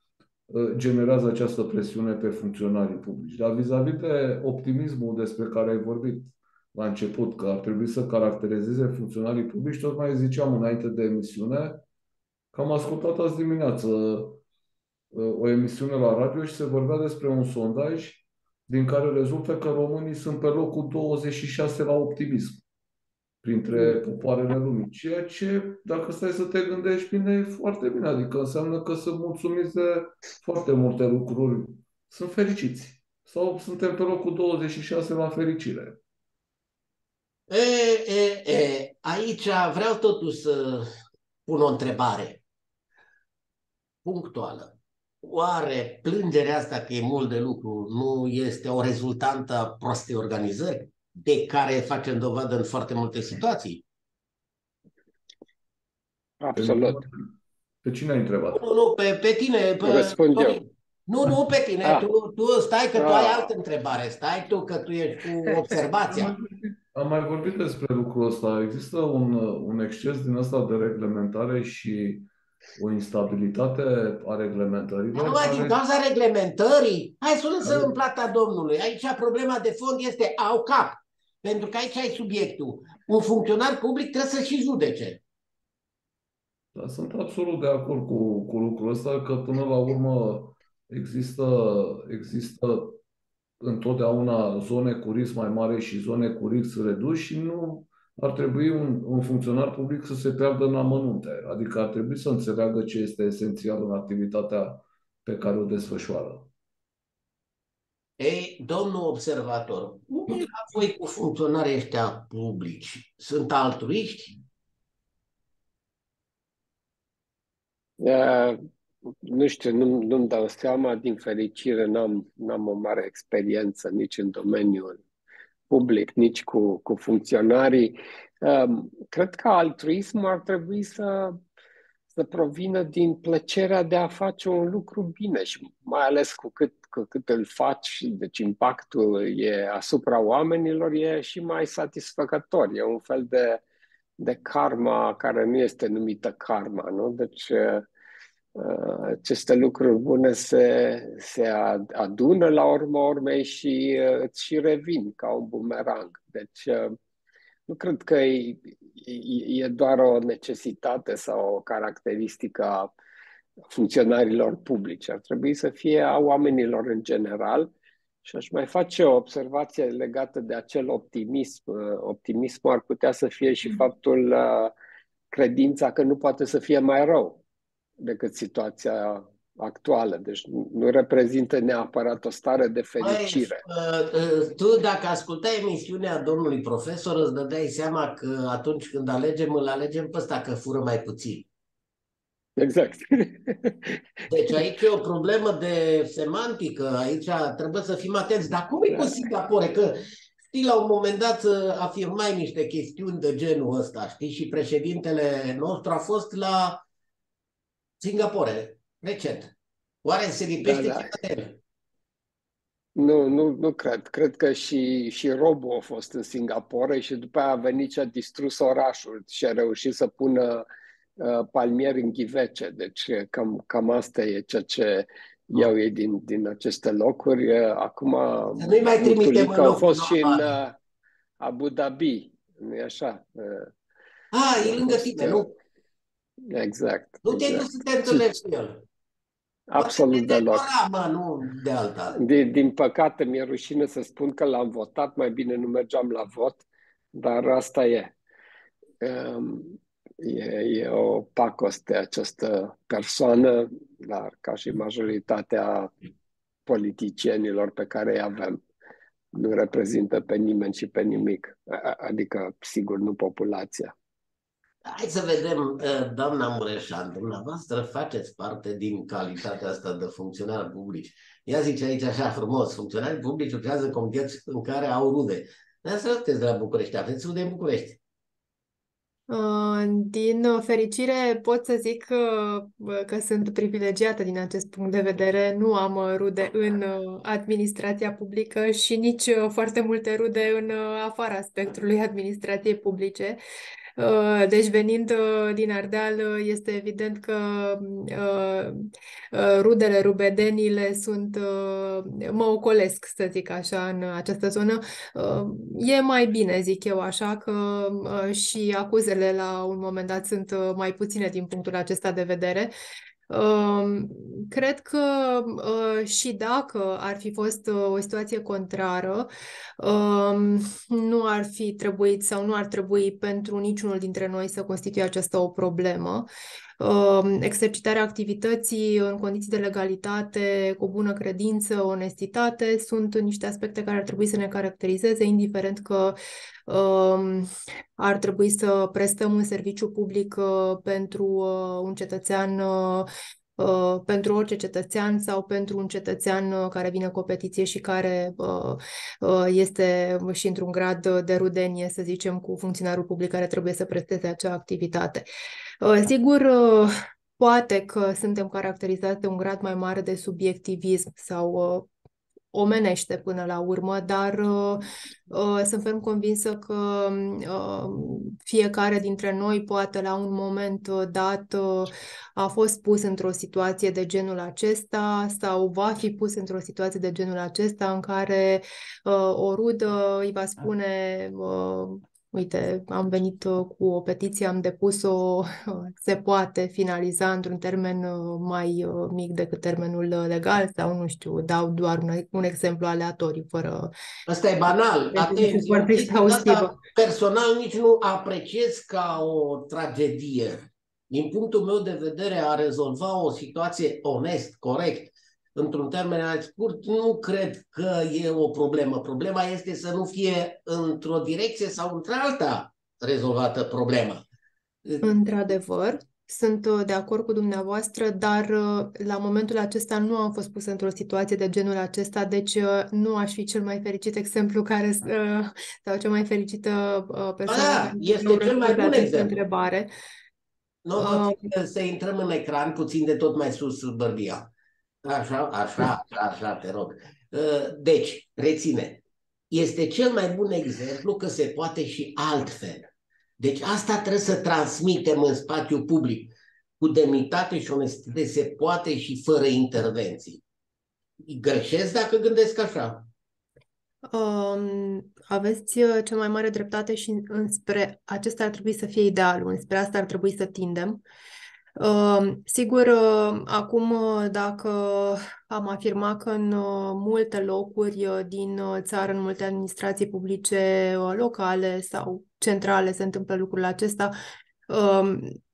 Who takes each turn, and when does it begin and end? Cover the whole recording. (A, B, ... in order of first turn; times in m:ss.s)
0:00.5-0:11.8 A
0:12.5-0:14.4 A
0:15.1-0:22.6 A
0:23.4-0:36.0 A
0:37.5-0:40.9 B
0:41.5-0:42.4 B
0:44.0-0:53.8 B
0:56.4-0:57.0 C
0:56.6-0:57.2 A
0:57.8-0:58.6 A
0:58.5-1:06.4 B
0:59.8-1:00.6 C
1:03.0-1:03.5 C
1:06.1-1:15.8 A
1:15.1-1:25.2 B
1:17.6-1:17.9 A
1:26.8-1:33.0 A
1:33.6-1:46.5 A
1:48.2-1:54.4 B
1:58.0-2:05.0 C
2:05.7-2:11.4 C
2:12.1-2:23.6 C
2:24.2-2:27.9 C
2:28.6-2:37.0 C
2:37.7-2:42.9 C
2:43.7-2:47.7 C
2:48.2-2:54.7 C
2:55.3-2:57.4 C
2:58.0-3:03.6 C
3:03.0-3:11.5 B
3:12.6-3:14.0 C
3:14.3-3:26.8 B
3:28.0-3:29.5 B
3:30.0-3:31.6 B
3:30.6-3:31.1 C
3:33.0-3:40.6 C
3:41.2-3:50.8 C
3:48.6-3:50.5 B
3:51.4-3:53.7 C
3:54.3-3:55.5 B
3:54.6-3:55.5 C
3:56.5-3:58.2 C
3:57.2-3:58.8 B
3:59.7-4:00.7 C
3:59.8-4:02.2 B
4:02.2-4:08.1 C
4:09.0-4:15.9 C
4:16.7-4:18.6 C
4:19.3-4:23.9 C
4:24.8-4:38.0 B
4:39.3-4:53.4 D
4:54.0-5:12.7 D
5:13.3-5:19.3 D
5:19.8-5:26.3 D
5:26.8-5:36.2 D
5:36.7-5:55.2 D
5:55.8-6:01.9 D
6:02.5-6:33.9 D
6:34.3-6:54.2 B
6:35.1-6:36.8 D
6:54.8-6:55.1 B
6:55.0-7:09.9 D
7:07.5-7:09.4 B
7:10.8-7:14.5 B
7:11.0-7:11.4 D
7:15.0-7:30.4 B
7:31.2-7:33.1 B
7:34.1-7:41.0 D
7:41.8-7:54.2 D
7:54.7-7:55.4 D